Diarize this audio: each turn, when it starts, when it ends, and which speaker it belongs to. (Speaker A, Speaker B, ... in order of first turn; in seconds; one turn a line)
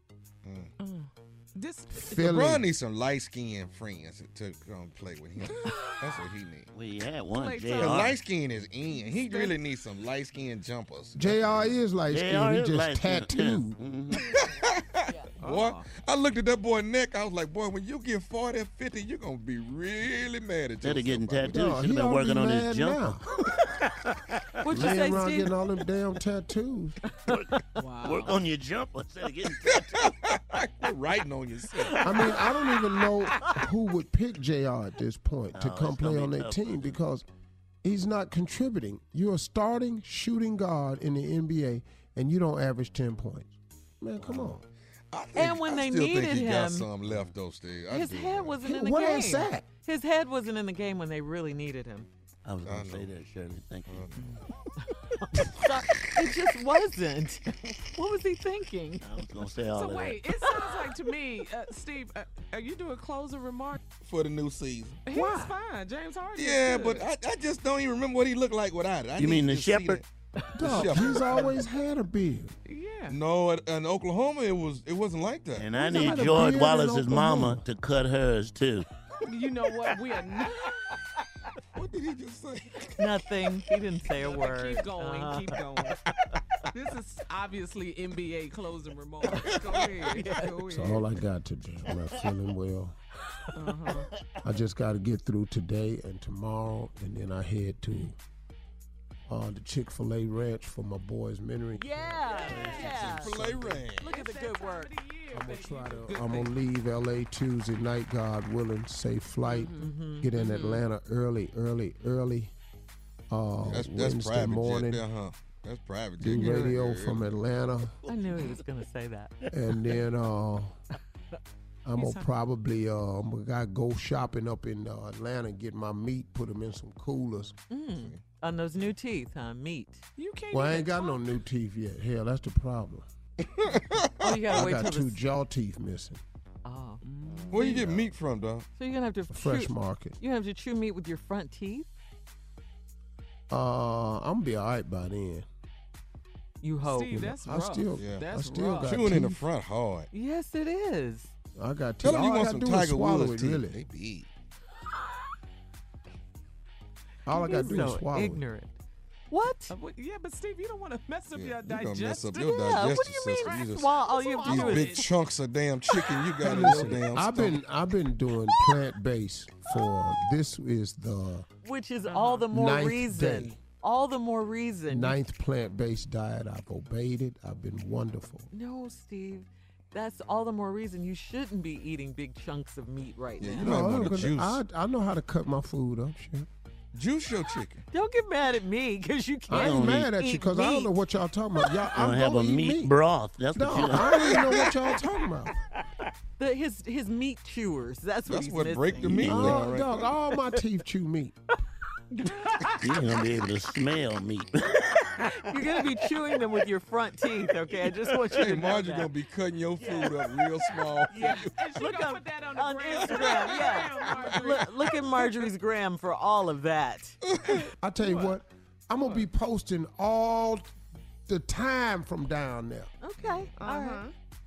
Speaker A: 0.4-0.7
Speaker B: 0.8-2.4
Speaker C: 1.9-2.6
Speaker A: 2.2-6.7
Speaker B: 5.6-5.9
Speaker D: 6.7-8.2
Speaker B: 7.3-8.1
Speaker A: 7.8-11.7
Speaker B: 8.9-9.6
Speaker C: 11.1-13.8
Speaker D: 12.1-14.2
Speaker A: 14.3-21.8
Speaker B: 15.4-15.8
Speaker D: 20.8-23.0
Speaker C: 21.5-23.2
Speaker E: 24.6-25.5
Speaker C: 24.7-27.0
Speaker D: 27.3-30.1
Speaker B: 27.8-28.4
Speaker A: 29.6-32.3
Speaker C: 32.0-37.2
Speaker D: 35.5-37.0
Speaker C: 37.8-44.6
Speaker A: 45.1-48.6
Speaker E: 45.3-46.9
Speaker D: 47.1-47.3
Speaker E: 47.9-52.1
Speaker C: 48.6-49.6
Speaker D: 52.4-54.1
Speaker A: 52.6-53.1
Speaker A: 53.9-54.2
Speaker E: 55.3-59.0
Speaker D: 59.0-60.2
Speaker B: 59.7-63.8
Speaker E: 60.5-60.7
Speaker A: 64.0-65.0
Speaker B: 65.0-67.1
Speaker A: 66.3-70.0
Speaker D: 69.2-70.0
Speaker C: 70.5-72.5
Speaker A: 70.6-71.3
Speaker B: 72.7-73.2
Speaker A: 73.1-75.7
Speaker D: 75.5-78.9
Speaker B: 75.8-76.4
Speaker C: 75.9-77.6
Speaker B: 79.2-80.6
Speaker A: 81.7-82.9
Speaker E: 83.0-85.6
Speaker B: 84.1-86.0
Speaker B: 86.7-91.0
Speaker E: 89.3-90.6
Speaker C: 90.7-92.9
Speaker B: 93.5-94.1
Speaker C: 94.4-98.1
Speaker C: 99.3-102.0
Speaker E: 101.8-104.9
Speaker B: 102.2-103.1
Speaker D: 102.5-103.3
Speaker A: 103.0-104.1
Speaker B: 103.9-106.5
Speaker C: 105.3-112.5
Speaker B: 109.5-110.8
Speaker E: 109.8-110.3
Speaker C: 113.3-115.0
Speaker A: 113.6-117.3
Speaker C: 116.2-117.9
Speaker E: 116.3-116.7
Speaker E: 118.1-119.3
Speaker C: 119.5-120.8
Speaker C: 121.8-127.5
Speaker B: 122.0-122.3
Speaker E: 127.7-130.0
Speaker B: 130.2-131.3
Speaker C: 130.5-133.1
Speaker A: 133.7-134.1
Speaker E: 134.2-135.3
Speaker C: 134.2-136.2
Speaker E: 136.6-137.0
Speaker B: 137.0-137.8
Speaker A: 137.5-138.7
Speaker E: 138.8-141.9
Speaker C: 139.3-140.2
Speaker C: 143.5-145.4
Speaker E: 146.6-147.2
Speaker B: 146.8-149.1
Speaker C: 147.1-149.4
Speaker A: 148.0-150.1
Speaker E: 150.1-151.3
Speaker C: 151.5-153.8
Speaker A: 152.0-154.3
Speaker C: 157.2-158.4
Speaker E: 157.3-158.7
Speaker E: 159.3-159.7
Speaker B: 159.7-162.8
Speaker A: 161.3-167.6
Speaker E: 162.3-165.0
Speaker B: 163.4-165.1
Speaker C: 166.4-171.5
Speaker E: 171.6-175.2
Speaker B: 172.1-172.5
Speaker C: 172.5-173.6
Speaker C: 174.9-178.5
Speaker E: 178.5-183.8
Speaker A: 183.4-184.6
Speaker C: 183.5-186.5
Speaker A: 186.9-187.8
Speaker E: 187.9-190.9
Speaker C: 189.5-192.9
Speaker D: 189.5-190.1
Speaker D: 191.9-194.4
Speaker C: 193.5-195.5
Speaker A: 194.0-194.7
Speaker E: 196.4-199.1
Speaker A: 198.3-200.1
Speaker D: 199.0-199.7
Speaker C: 199.2-201.3
Speaker B: 202.2-203.0
Speaker D: 202.8-204.8
Speaker E: 205.2-209.1
Speaker A: 208.2-211.5
Speaker B: 209.8-210.1
Speaker B: 211.1-215.0
Speaker E: 211.1-217.2
Speaker A: 213.1-214.6
Speaker C: 217.8-220.7
Speaker B: 218.0-218.3
Speaker C: 221.3-222.9
Speaker E: 223.0-224.0
Speaker A: 223.2-223.5
Speaker B: 223.6-224.1